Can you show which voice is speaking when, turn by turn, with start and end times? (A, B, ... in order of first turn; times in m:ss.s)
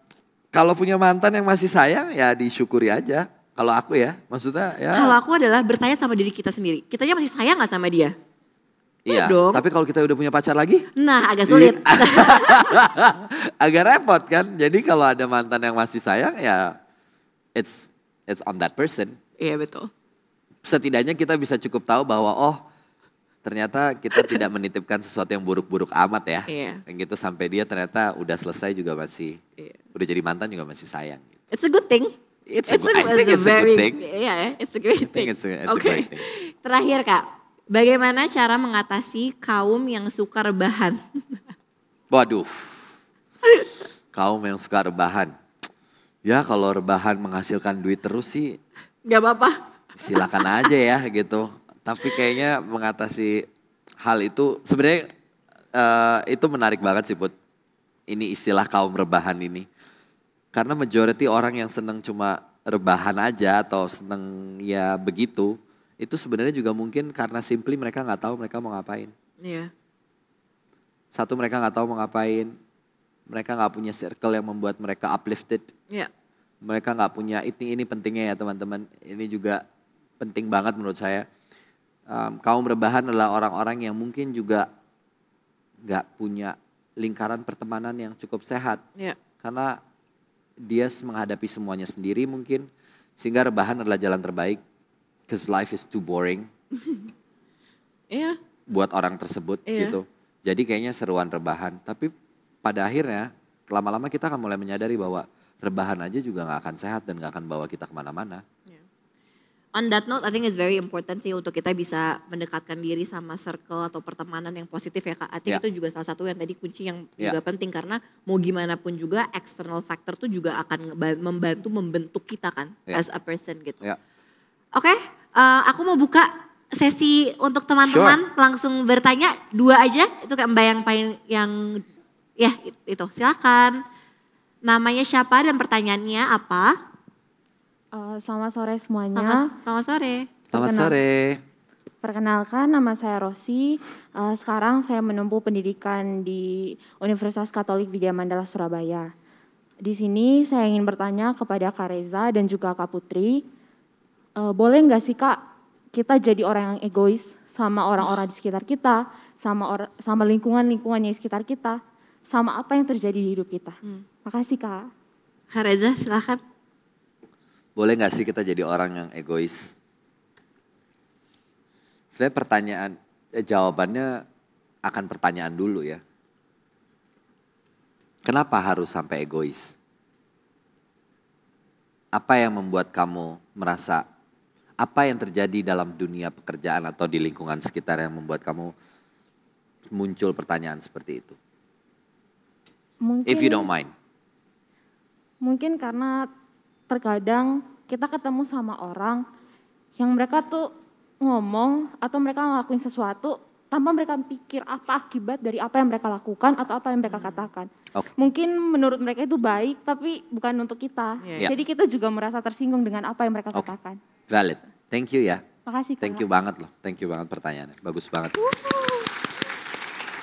0:00.5-0:05.1 A
0:04.9-0:08.1 B
0:09.0-0:10.9 A
0:09.1-0:09.6 B
0:11.0-0:12.8 B
0:11.5-0:16.8 A
0:17.6-0:19.2 A
0:19.4-0:19.9 B
0:20.6-0:22.6 A
0:23.4-0:29.4 A
0:26.5-0:26.8 B
0:29.9-0:31.3 A
0:31.5-0:32.1 B
0:32.5-0:34.0 A
0:32.7-0:41.4 B
0:35.0-0:36.2 A
0:42.1-0:42.9 A
0:44.1-0:45.3 A
0:46.2-0:48.6 A
0:49.0-0:49.6 B
0:50.0-0:53.5 A
0:50.1-0:50.7 B
0:54.0-0:55.1 A
0:55.7-0:57.3 A
0:58.1-0:59.7 A
1:00.5-1:09.1 A
1:09.4-1:09.7 B
1:11.1-1:12.5 A
1:13.3-1:15.7 A
1:16.6-1:19.6 A
1:20.2-1:21.3 A
1:22.1-1:24.7 A
1:25.8-1:28.8 A
1:29.4-1:29.8 A
1:30.6-1:32.7 A
1:33.2-1:34.6 A
1:35.3-1:36.5 A
1:38.1-1:38.4 B
1:38.7-1:42.1 A
1:39.6-1:40.0 B
1:42.6-1:48.4 A
1:49.7-2:03.8 B
2:04.7-2:11.8 B
2:07.8-2:08.2 A
2:12.4-2:13.8 B
2:14.6-2:16.8 B
2:17.9-2:19.5 C
2:19.1-2:20.4 B
2:20.5-2:21.4 A
2:20.5-2:20.9 C
2:22.0-2:29.1 C
2:29.8-2:33.4 C
2:34.4-2:35.4 C
2:35.9-2:44.8 C
2:45.5-2:46.4 B
2:47.8-2:49.7 A
2:52.1-2:54.2 A
2:54.8-2:56.0 A
2:58.2-2:59.8 A
3:02.1-3:04.0 A
3:04.8-3:08.7 A
3:09.9-3:11.4 A
3:13.0-3:13.7 C
3:13.2-3:13.9 A
3:15.4-3:16.3 C
3:16.9-3:19.2 C
3:20.0-3:20.7 C
3:21.2-3:34.0 C
3:27.1-3:27.5 B
3:31.2-3:31.5 B
3:34.3-3:35.4 A
3:35.6-3:36.2 C
3:36.0-3:38.5 A
3:38.5-3:38.9 B